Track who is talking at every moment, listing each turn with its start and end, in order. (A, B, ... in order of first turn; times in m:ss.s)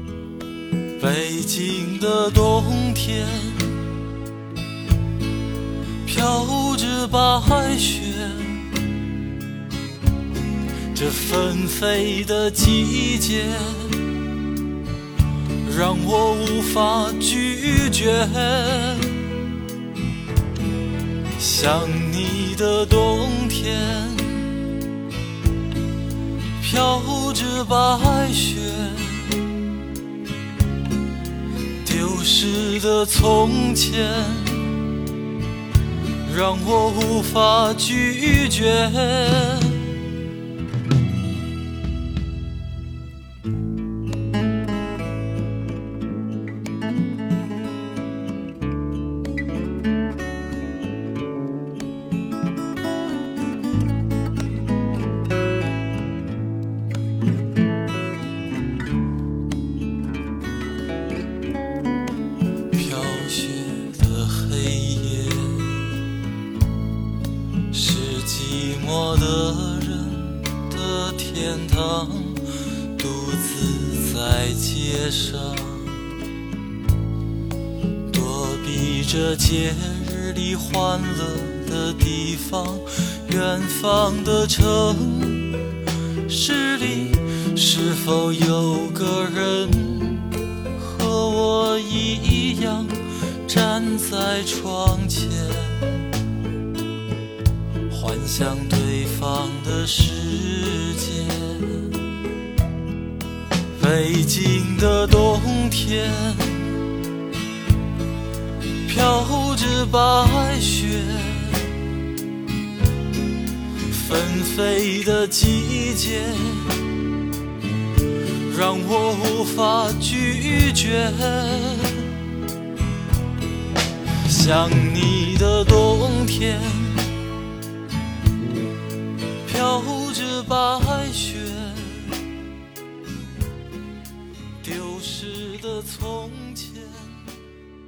0:01.0-0:03.7 A
0:06.0-0:08.6 A
0:10.9-0:14.0 A
0:15.6-0:19.3 A
0:21.4-0:24.5 A
0:26.6-0:29.4 A
0:31.8-0:34.8 A
0:36.2-0:39.9 A
1:02.7-1:05.9 A
1:07.7-1:12.4 A
1:13.0-1:15.9 A
1:18.1-1:25.6 A
1:26.3-1:32.9 A
1:33.4-1:36.0 A
1:37.9-1:41.9 A
1:43.8-1:46.6 A
1:48.8-1:51.7 A
1:53.9-1:56.8 A
1:58.5-2:02.1 A
2:04.2-2:07.1 A
2:09.4-2:12.2 A
2:14.6-2:17.2 A